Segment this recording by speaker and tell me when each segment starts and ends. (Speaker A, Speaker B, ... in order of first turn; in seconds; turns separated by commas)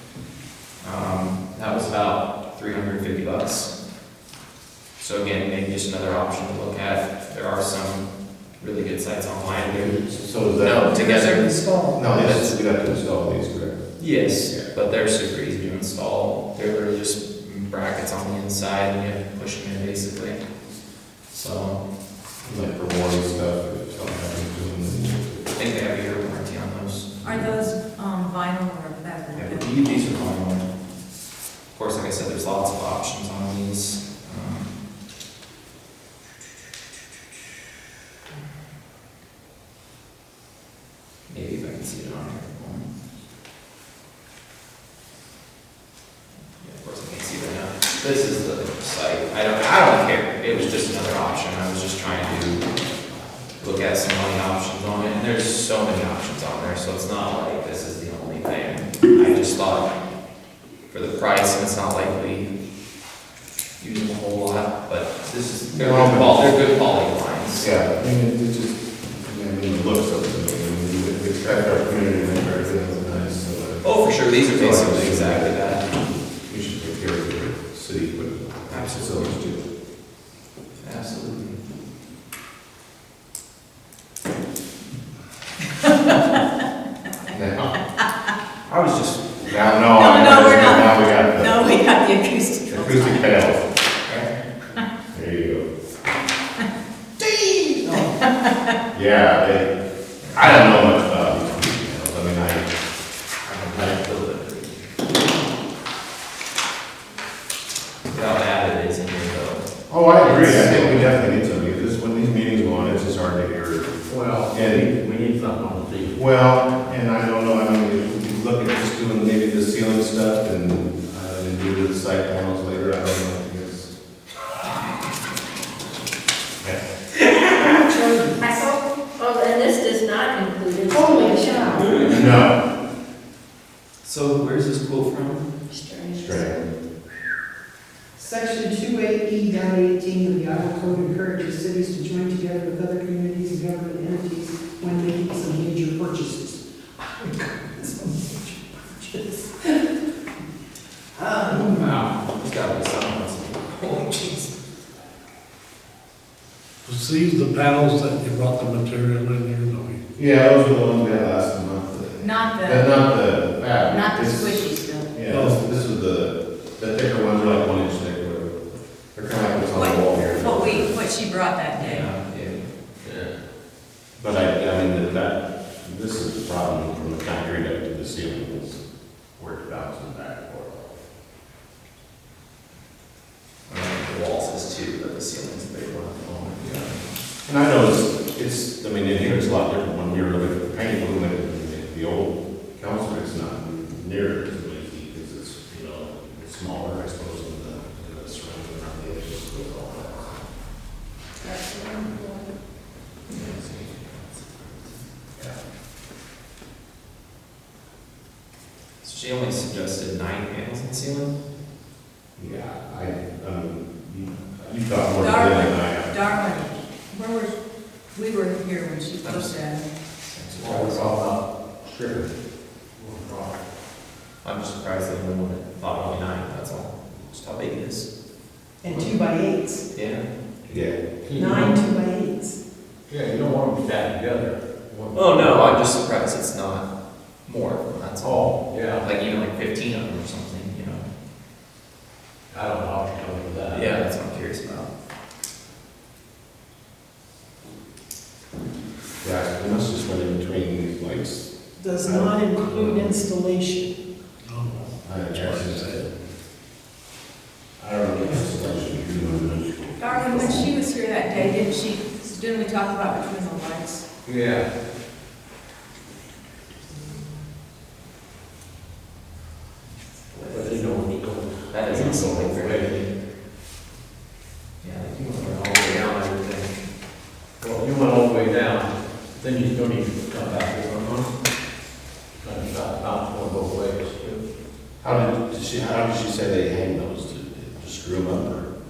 Speaker A: 0.8-3.7, Speaker A: 5.0-10.0, Speaker B: 9.5-11.3, Speaker A: 10.6-12.5, Speaker C: 10.9-12.0, Speaker B: 11.9-13.8, Speaker A: 14.0-20.4, Speaker A: 21.3-21.8, Speaker B: 22.4-25.4, Speaker A: 25.5-27.5, Speaker C: 27.2-29.7, Speaker A: 29.3-30.7, Speaker A: 31.7-34.7, Speaker A: 41.3-42.9, Speaker A: 46.6-52.7, Speaker A: 53.6-59.9, Speaker A: 60.9-62.5, Speaker A: 63.8-67.7, Speaker B: 65.7-66.5, Speaker B: 67.6-73.8, Speaker A: 73.8-75.9, Speaker B: 74.5-79.6, Speaker A: 78.7-79.6, Speaker A: 80.8-81.6, Speaker C: 85.8-86.1, Speaker B: 87.3-87.8, Speaker A: 88.7-89.5, Speaker B: 89.4-91.8, Speaker C: 89.9-93.3, Speaker B: 92.7-93.6, Speaker B: 95.1-95.7, Speaker A: 97.8-98.1, Speaker C: 97.8-98.5, Speaker B: 98.9-99.7, Speaker B: 100.3-102.7, Speaker A: 103.4-104.8, Speaker B: 103.7-104.0, Speaker A: 108.1-109.7, Speaker B: 109.9-113.9, Speaker A: 110.2-111.1, Speaker D: 114.0-116.2, Speaker B: 114.5-114.8, Speaker B: 116.1-123.9, Speaker E: 127.6-128.7, Speaker F: 128.4-132.3, Speaker E: 130.9-132.1, Speaker B: 132.1-132.6, Speaker A: 134.0-135.5, Speaker F: 135.7-136.7, Speaker B: 136.1-136.7, Speaker E: 138.2-149.9, Speaker E: 151.1-152.0, Speaker A: 151.5-154.5, Speaker G: 156.8-160.0, Speaker B: 160.2-168.6, Speaker C: 162.2-163.0, Speaker C: 163.8-165.1, Speaker G: 165.2-165.6, Speaker B: 169.1-170.9, Speaker C: 169.7-172.1, Speaker A: 171.8-172.7, Speaker D: 173.0-173.3, Speaker B: 174.2-178.8, Speaker B: 179.4-181.0, Speaker A: 183.7-187.0, Speaker B: 187.4-200.4, Speaker E: 201.4-202.2, Speaker A: 203.3-204.9, Speaker A: 209.0-211.3, Speaker B: 212.4-216.4, Speaker C: 215.2-217.6, Speaker C: 218.1-219.8, Speaker A: 219.2-219.6, Speaker A: 220.2-221.1, Speaker D: 220.6-222.3, Speaker D: 222.9-223.6, Speaker A: 224.4-228.1, Speaker E: 228.8-229.8, Speaker A: 229.9-230.2, Speaker B: 230.7-231.0, Speaker D: 231.2-231.8, Speaker E: 231.3-232.6, Speaker D: 233.1-235.8, Speaker A: 235.1-236.9, Speaker A: 237.4-241.1, Speaker D: 238.2-239.0, Speaker D: 242.5-244.0, Speaker A: 243.7-244.9, Speaker B: 249.2-251.5, Speaker E: 251.8-253.9, Speaker B: 252.0-253.2, Speaker G: 254.4-256.1, Speaker B: 255.0-256.1, Speaker B: 257.8-260.7, Speaker C: 260.0-264.0, Speaker D: 264.2-264.7, Speaker A: 270.3-273.1, Speaker D: 270.4-272.9, Speaker A: 274.8-276.7, Speaker D: 277.6-281.3, Speaker D: 282.4-284.4, Speaker B: 285.0-288.7